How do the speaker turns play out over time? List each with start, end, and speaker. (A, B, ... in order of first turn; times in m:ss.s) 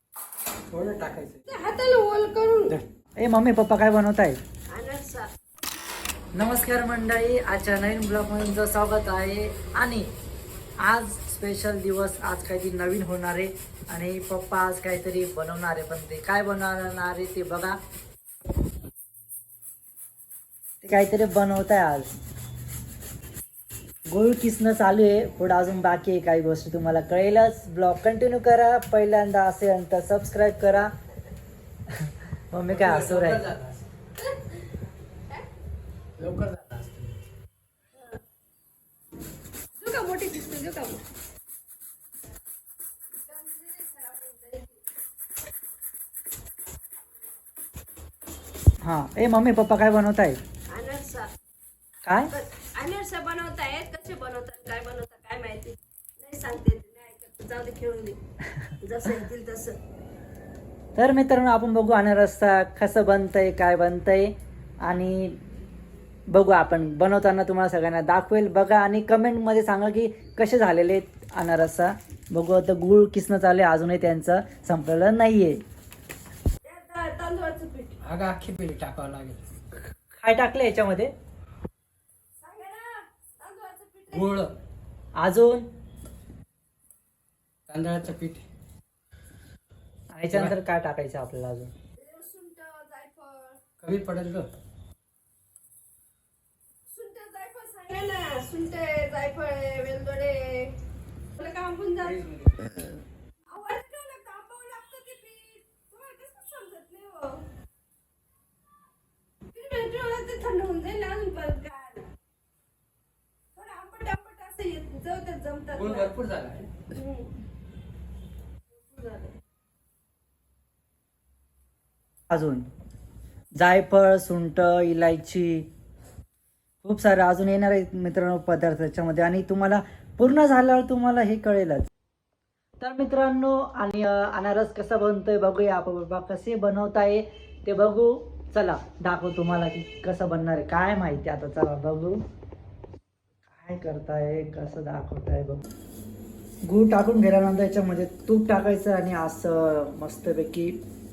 0:00.7-0:01.4 A
0:01.4-0:02.8 B
0:03.2-0:04.4 C
0:04.7-0:05.3 B
0:06.3-0:10.1 C
0:10.8-0:17.8 C
0:20.8-0:22.1 C
0:24.1-0:30.9 C
0:31.9-0:33.4 C
0:32.7-0:33.8 A
0:34.2-0:34.6 B
0:36.2-0:37.2 A
0:37.9-0:38.2 B
0:39.7-0:41.0 B
0:43.1-0:44.8 B
0:48.8-0:50.4 C
0:50.7-0:51.3 B
0:52.0-0:52.3 C
0:52.3-0:58.2 B
0:58.8-0:59.8 B
1:00.9-1:05.4 C
1:06.3-1:15.6 C
1:16.6-1:18.0 B
1:18.0-1:19.4 A
1:20.1-1:21.1 C
1:22.4-1:24.3 B
1:24.1-1:24.5 A
1:25.2-1:25.7 C
1:27.7-1:28.4 A
1:30.1-1:31.7 C
1:32.0-1:33.6 B
1:33.8-1:34.5 A
1:36.9-1:40.8 B
1:41.3-1:42.2 B
1:42.0-1:42.7 A
1:43.5-1:47.4 B
1:49.5-1:52.1 B
1:53.5-1:56.1 B
1:55.8-1:56.7 A
1:56.9-1:57.3 B
1:58.7-1:59.4 B
2:02.3-2:02.7 C
2:03.6-2:05.7 C
2:06.8-2:11.9 C
2:12.8-2:22.2 C
2:23.5-2:25.6 C
2:26.6-2:30.8 C